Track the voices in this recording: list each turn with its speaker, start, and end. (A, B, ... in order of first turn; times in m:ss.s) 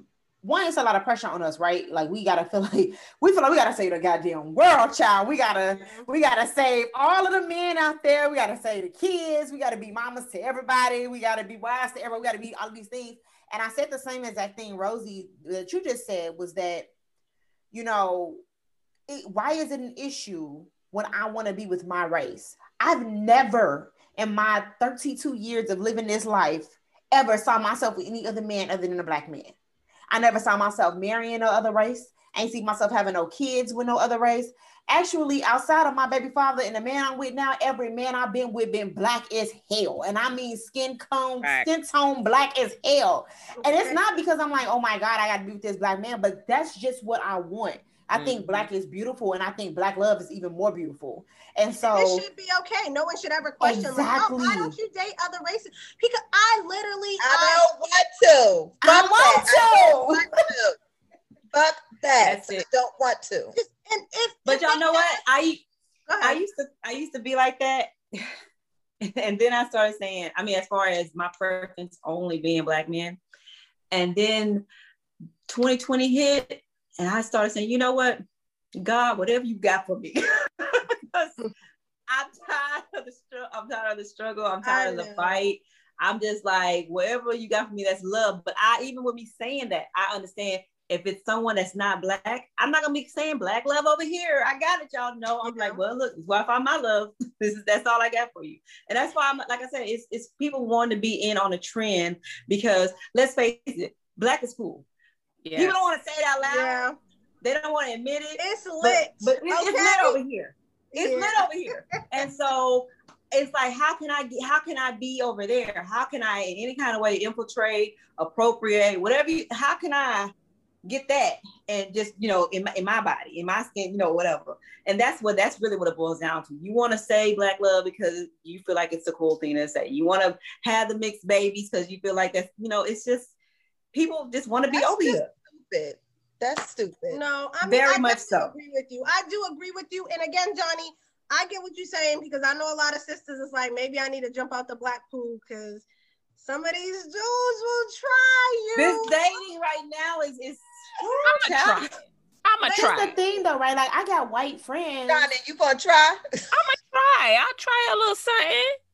0:00.4-0:16.9 A
0:05.8-0:06.1 B
0:17.7-0:18.4 A
0:19.1-0:29.5 A
0:30.1-0:52.3 A
0:41.4-0:41.7 C
0:43.6-0:44.0 B
0:48.1-0:48.7 C
0:51.8-0:57.7 B
0:53.6-0:54.8 A
0:57.2-1:00.8 D
0:58.8-1:00.4 A
1:01.5-1:03.6 D
1:02.2-1:02.6 E
1:03.6-1:05.2 B
1:04.5-1:05.6 E
1:06.1-1:06.4 B
1:06.2-1:08.2 E
1:09.1-1:13.2 E
1:13.9-1:14.7 E
1:15.5-1:18.2 E
1:18.8-1:21.4 E
1:22.1-1:44.8 E
1:24.6-1:25.4 B
1:35.4-1:35.8 B
1:45.4-1:45.8 C
1:45.6-1:46.9 E
1:46.4-1:47.0 B
1:47.4-2:00.3 E
1:48.4-1:50.2 B
1:50.9-1:51.5 B
2:00.8-2:13.3 E
2:13.9-2:15.3 E
2:14.7-2:17.2 D
2:17.1-2:25.8 B
2:17.6-2:18.5 E
2:26.4-2:29.2 B
2:28.8-2:31.9 E
2:31.2-2:33.2 C
2:32.7-2:35.3 A
2:35.1-2:36.2 D
2:36.5-2:38.8 C